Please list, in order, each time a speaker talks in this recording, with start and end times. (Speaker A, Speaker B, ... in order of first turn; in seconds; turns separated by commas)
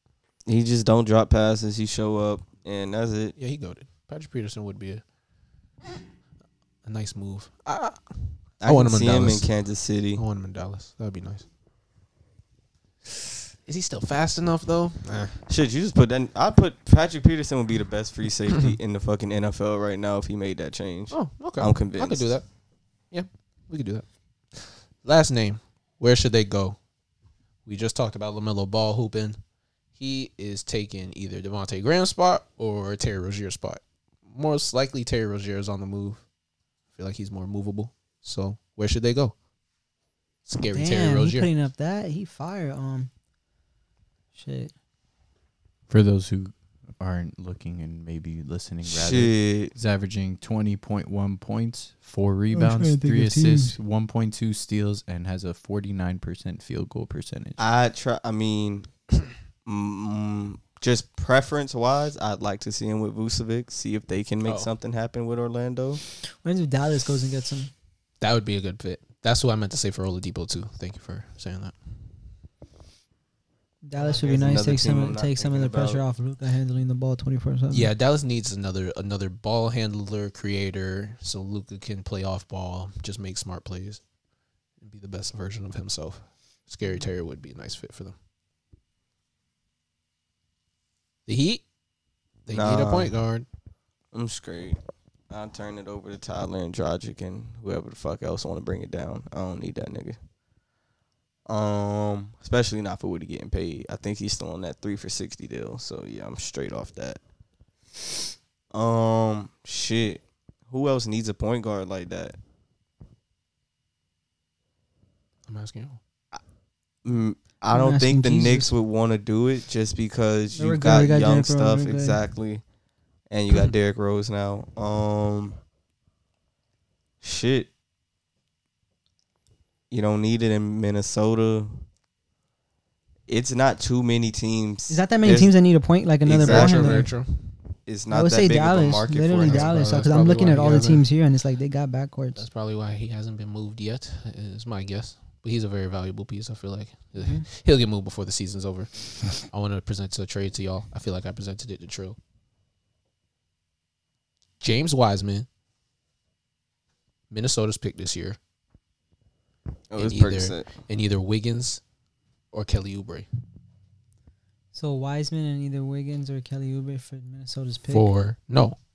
Speaker A: 0.5-3.3, Speaker B: 3.4-5.0, Speaker B: 6.8-9.5, Speaker A: 8.6-10.2, Speaker B: 10.2-11.4, Speaker B: 13.7-15.4, Speaker A: 15.5-22.3, Speaker B: 21.1-22.4, Speaker B: 23.1-26.8, Speaker B: 27.7-29.4, Speaker B: 30.0-36.2, Speaker B: 37.0-39.3, Speaker B: 40.5-41.5, Speaker C: 40.7-43.1, Speaker C: 44.4-44.7, Speaker D: 45.9-57.6, Speaker A: 48.9-49.7, Speaker C: 52.5-53.8, Speaker A: 57.6-58.9, Speaker A: 59.6-66.0, Speaker B: 64.5-64.7, Speaker C: 66.4-67.7, Speaker B: 68.2-71.7, Speaker C: 73.8-77.9, Speaker A: 74.1-76.0, Speaker B: 77.7-84.0, Speaker B: 84.8-88.1, Speaker B: 91.3-91.7, Speaker B: 92.5-93.5, Speaker A: 92.5-93.2, Speaker A: 94.1-94.8, Speaker A: 95.3-100.2, Speaker A: 101.5-107.2, Speaker A: 108.7-112.4, Speaker B: 115.5-116.0, Speaker A: 117.0-122.6, Speaker C: 117.7-118.7, Speaker C: 120.6-122.2, Speaker A: 123.3-125.6, Speaker A: 127.2-127.7, Speaker A: 129.9-131.8, Speaker A: 133.3-135.5, Speaker C: 134.9-137.1, Speaker A: 136.2-137.1, Speaker B: 136.4-137.4, Speaker A: 137.9-139.8, Speaker C: 138.1-142.4, Speaker B: 139.5-141.1, Speaker B: 142.4-152.2, Speaker C: 147.2-147.5, Speaker B: 154.6-155.5, Speaker B: 157.3-158.4, Speaker A: 159.9-160.7, Speaker B: 160.0-161.8, Speaker B: 162.5-163.3, Speaker C: 164.7-168.1, Speaker B: 167.9-168.8